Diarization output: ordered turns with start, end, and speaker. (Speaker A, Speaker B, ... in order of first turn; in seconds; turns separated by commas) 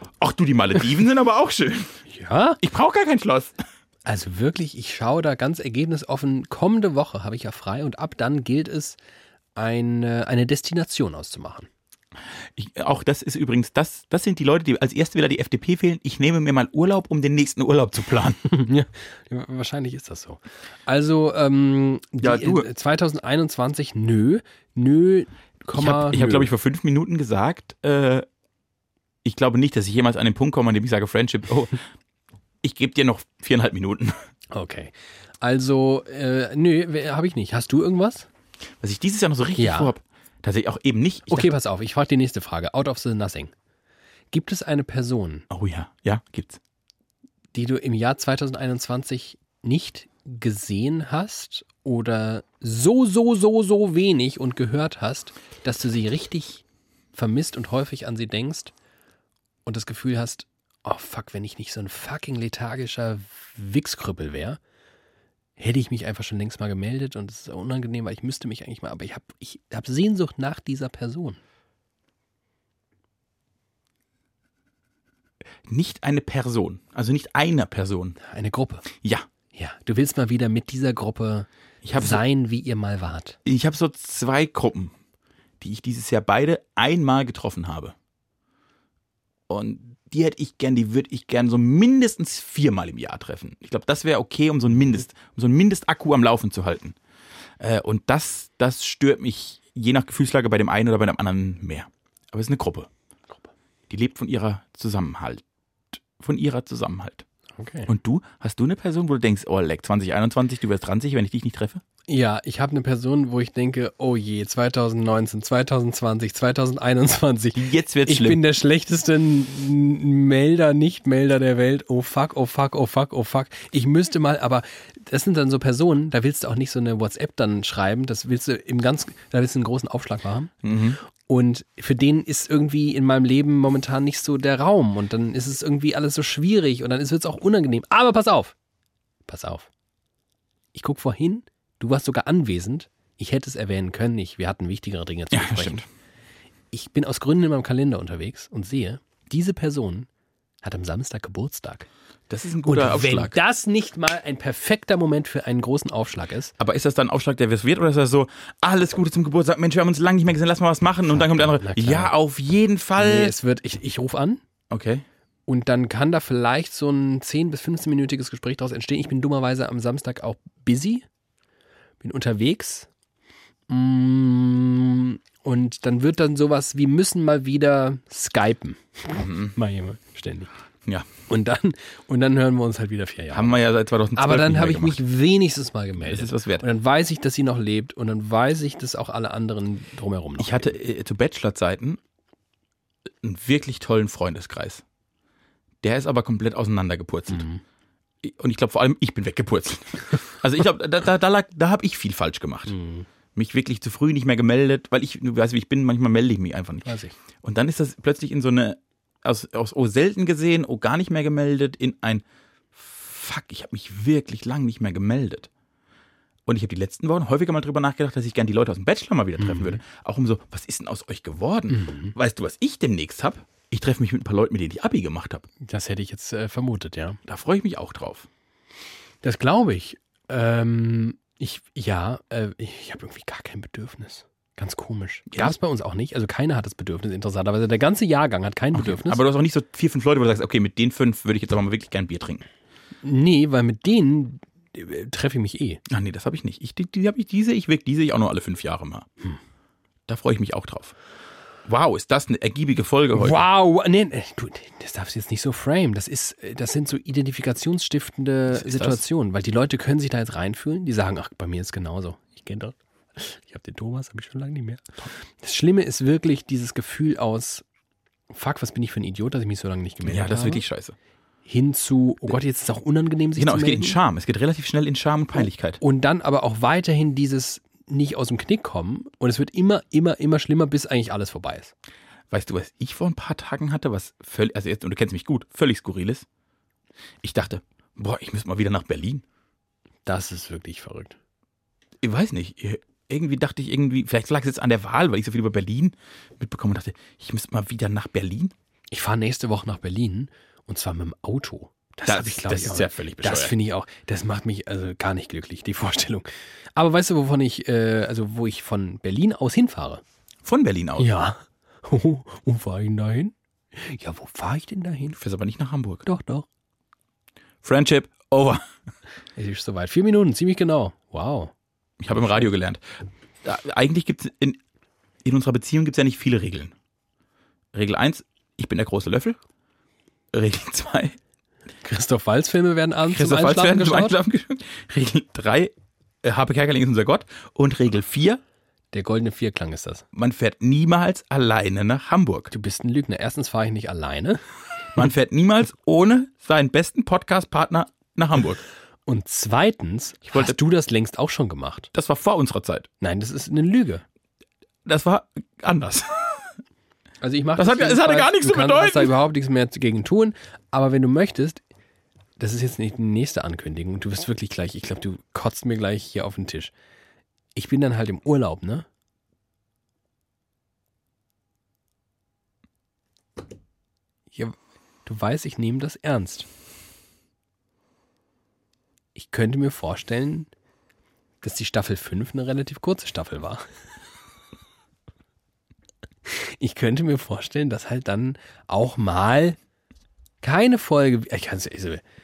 Speaker A: 0.2-2.0, Speaker B: 2.1-2.6, Speaker A: 2.6-3.6, Speaker B: 4.0-9.0, Speaker B: 9.6-11.7, Speaker A: 12.5-18.4, Speaker B: 18.4-26.5, Speaker A: 22.2-22.7, Speaker A: 25.7-28.2, Speaker A: 29.2-31.8, Speaker A: 32.6-34.1, Speaker B: 34.5-38.3, Speaker A: 38.8-41.5, Speaker B: 39.6-39.9, Speaker B: 41.3-43.5, Speaker B: 44.3-45.5, Speaker A: 45.5-46.6, Speaker B: 47.5-56.6, Speaker B: 57.1-58.7, Speaker B: 59.6-64.6, Speaker B: 65.6-71.4, Speaker A: 75.7-78.2, Speaker B: 78.2-78.8, Speaker A: 78.9-79.2, Speaker B: 79.5-83.4, Speaker A: 81.8-82.2, Speaker A: 83.4-84.9, Speaker A: 85.6-87.9, Speaker A: 89.5-97.0, Speaker A: 97.6-102.9, Speaker A: 103.9-105.4, Speaker A: 105.9-107.2, Speaker B: 107.6-107.9, Speaker A: 107.9-111.8, Speaker B: 112.1-130.5, Speaker A: 117.5-118.4, Speaker A: 130.6-131.0, Speaker B: 131.2-138.5, Speaker B: 139.3-139.7, Speaker B: 140.7-145.8, Speaker A: 145.3-145.8, Speaker B: 146.7-150.1, Speaker B: 150.6-151.9, Speaker A: 152.3-153.3, Speaker B: 152.7-156.5, Speaker A: 156.6-163.3, Speaker B: 161.1-162.1, Speaker B: 163.0-164.4, Speaker A: 164.7-165.1, Speaker B: 165.5-171.0, Speaker B: 172.0-172.9, Speaker B: 173.7-180.5, Speaker A: 179.1-179.5, Speaker B: 181.3-183.6, Speaker A: 183.3-185.0, Speaker B: 184.1-190.8, Speaker A: 186.0-186.6, Speaker A: 190.4-192.0, Speaker A: 193.1-194.8, Speaker A: 195.8-197.4, Speaker B: 197.3-197.6, Speaker A: 198.2-202.7, Speaker B: 202.7-203.1, Speaker A: 203.3-215.5, Speaker B: 206.8-207.1, Speaker A: 216.5-225.4, Speaker B: 219.4-219.8, Speaker B: 221.7-222.1, Speaker B: 225.6-227.2, Speaker A: 227.2-228.3, Speaker B: 229.2-239.2, Speaker A: 238.7-242.4, Speaker B: 243.0-245.8, Speaker A: 245.9-249.1, Speaker A: 250.1-250.9, Speaker A: 251.7-253.4, Speaker B: 253.1-267.6, Speaker A: 258.5-259.0, Speaker B: 268.3-270.6, Speaker A: 270.0-270.9, Speaker B: 271.4-274.0, Speaker A: 273.4-275.8, Speaker B: 275.8-281.7, Speaker A: 282.3-286.2, Speaker A: 287.2-289.2, Speaker B: 290.1-291.1, Speaker A: 292.0-298.5, Speaker B: 298.9-310.0, Speaker A: 302.1-303.5, Speaker A: 310.4-311.1, Speaker B: 311.0-315.2, Speaker A: 315.2-316.0, Speaker B: 316.0-316.4, Speaker A: 317.6-318.6, Speaker B: 319.4-321.5, Speaker A: 322.0-322.8, Speaker A: 323.4-324.6, Speaker A: 325.2-326.7, Speaker A: 327.7-329.4, Speaker A: 330.3-331.2, Speaker B: 331.8-334.2, Speaker A: 333.0-338.4, Speaker B: 338.9-340.0, Speaker A: 340.1-342.5, Speaker B: 342.5-344.4, Speaker A: 344.9-348.6, Speaker B: 349.1-351.9, Speaker A: 351.9-352.9, Speaker B: 353.0-354.0, Speaker A: 354.8-356.5, Speaker B: 357.2-361.6, Speaker A: 357.6-359.1, Speaker B: 362.4-366.7, Speaker B: 367.5-368.9, Speaker B: 374.3-376.5, Speaker B: 379.1-380.5, Speaker B: 381.4-383.6, Speaker B: 386.2-389.6, Speaker B: 390.4-392.0